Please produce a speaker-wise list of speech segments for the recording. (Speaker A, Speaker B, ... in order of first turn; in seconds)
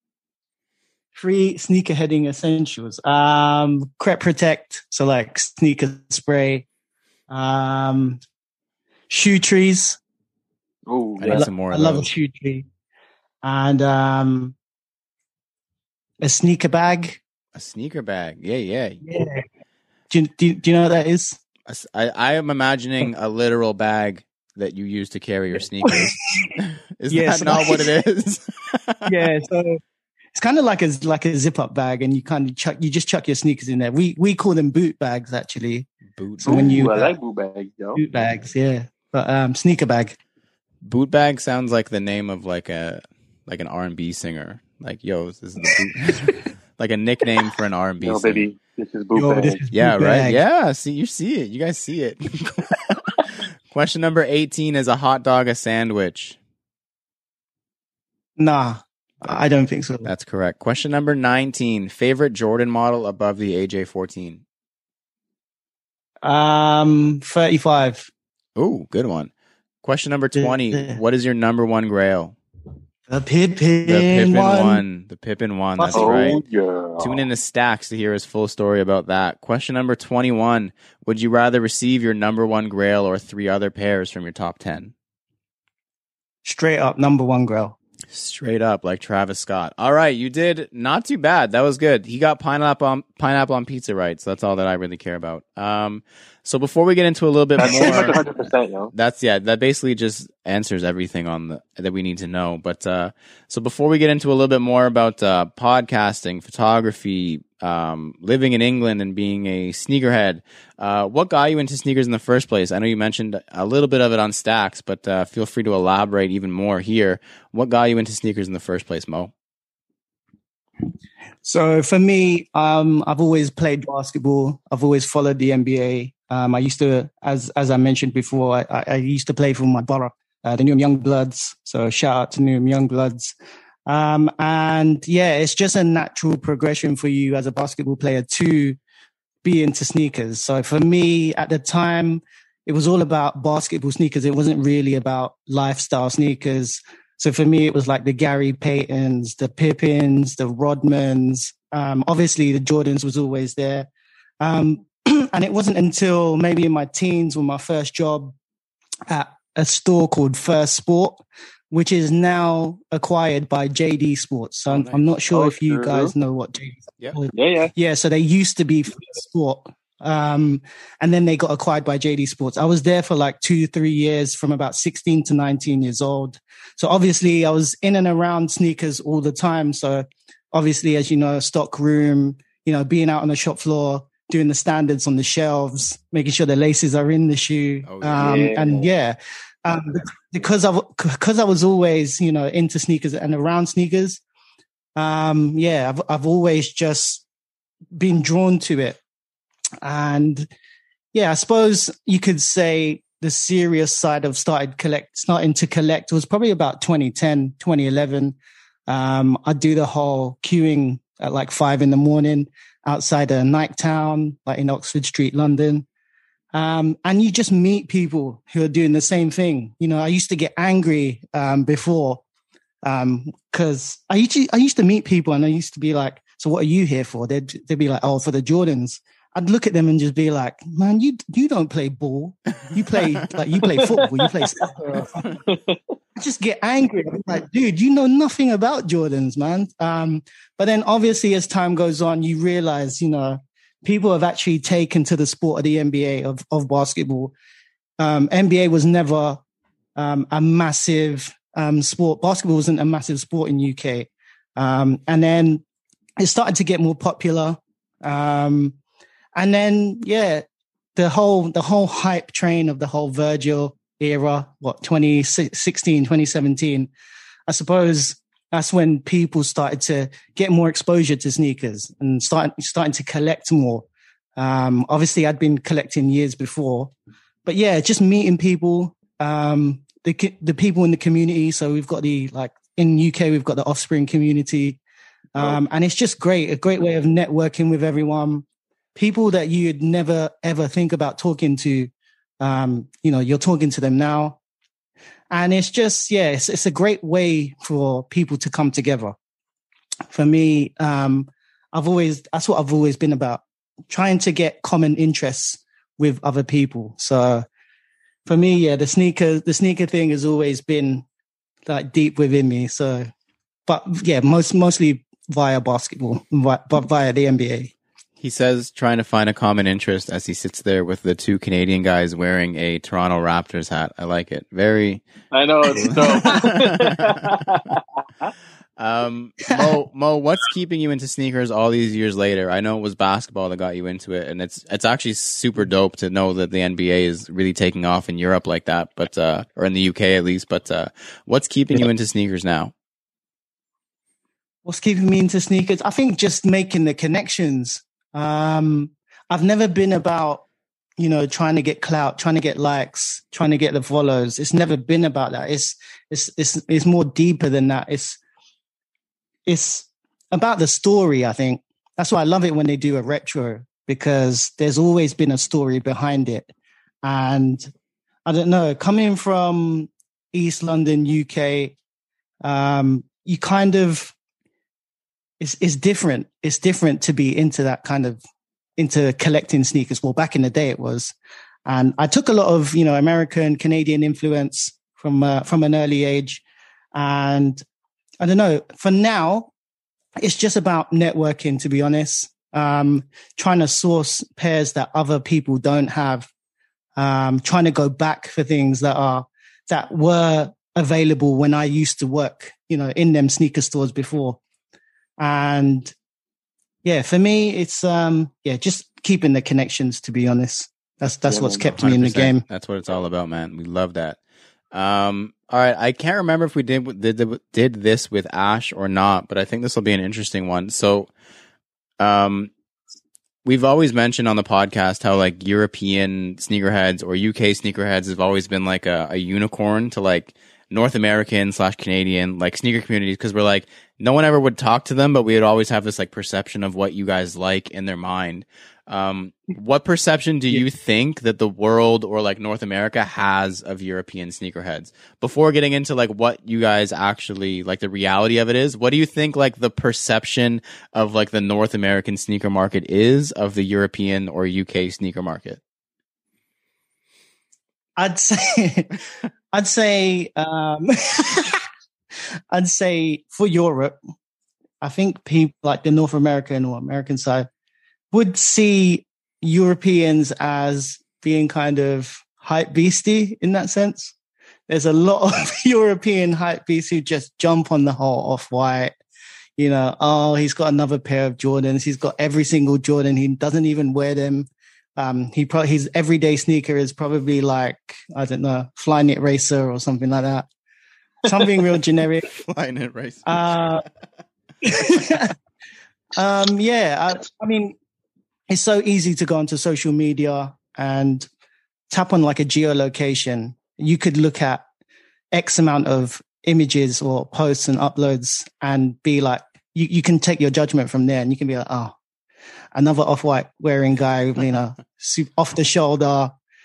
Speaker A: 1.1-6.7, 7.3-8.2, 9.1-10.0, 11.3-12.7, 13.4-14.6, 16.2-17.2, 19.0-19.4, 20.1-21.4, 25.8-26.6, 27.1-27.9, 29.1-29.8, 30.4-35.9, 36.4-37.2, 38.0-40.2, 49.1-50.4, 58.4-60.1, 66.2-68.1, 70.3-71.0, 73.1-74.8, 75.8-76.5, 86.5-87.8, 97.7-98.2, 121.4-133.3, 133.9-138.8, 139.4-153.9, 154.4-158.3, 159.1-194.2, 195.0-197.2, 197.9-199.0, 199.8-200.5, 201.1-208.4, 208.9-215.9, 216.5-222.2, 222.8-235.4, 236.2-247.3, 248.0-249.4, 250.0-255.6, 256.2-258.8, 259.4-260.4, 261.0-266.9, 267.5-273.9, 274.4-276.9, 277.4-284.8, 285.4-294.4, 295.3-299.1, 300.1-307.4, 308.3-311.1, 311.7-313.1, 313.7-317.7, 325.8-326.4, 344.6-350.4, 351.0-358.2, 359.5-366.5, 367.0-367.7, 368.3-371.8, 372.4-374.1, 375.4-378.2, 378.8-381.1, 381.7-386.4, 386.9-387.6, 388.2-389.5, 390.2-396.3, 397.0-404.4, 405.2-405.9, 406.8-412.4, 458.0-458.9, 459.5-461.6, 462.5-464.0, 464.8-467.5, 468.1-474.1, 474.7-478.9, 479.6-490.5, 491.2-492.3, 493.3-493.9, 494.6-495.4, 496.1-497.8, 498.5-501.3, 501.9-504.6, 505.3-511.9, 512.8-516.3
Speaker B: 10.9-11.5, 36.5-38.0, 48.0-49.6, 75.9-77.3, 97.6-98.9, 165.3-166.1, 167.3-167.7, 188.2-188.9, 233.7-234.5, 235.5-235.8, 325.3-328.3, 411.3-411.7
Speaker C: 11.2-12.1, 17.6-19.0, 21.7-29.3, 36.2-36.9, 40.8-48.5, 49.7-56.4, 60.0-64.4, 68.6-69.3, 69.8-72.4, 73.8-76.4, 77.0-84.9, 88.1-98.2, 98.9-119.3, 164.7-165.1, 187.8-188.6, 318.2-325.1, 325.7-327.3, 328.8-342.7, 411.8-414.2, 414.7-421.1, 422.0-422.5, 423.4-455.6, 492.2-493.6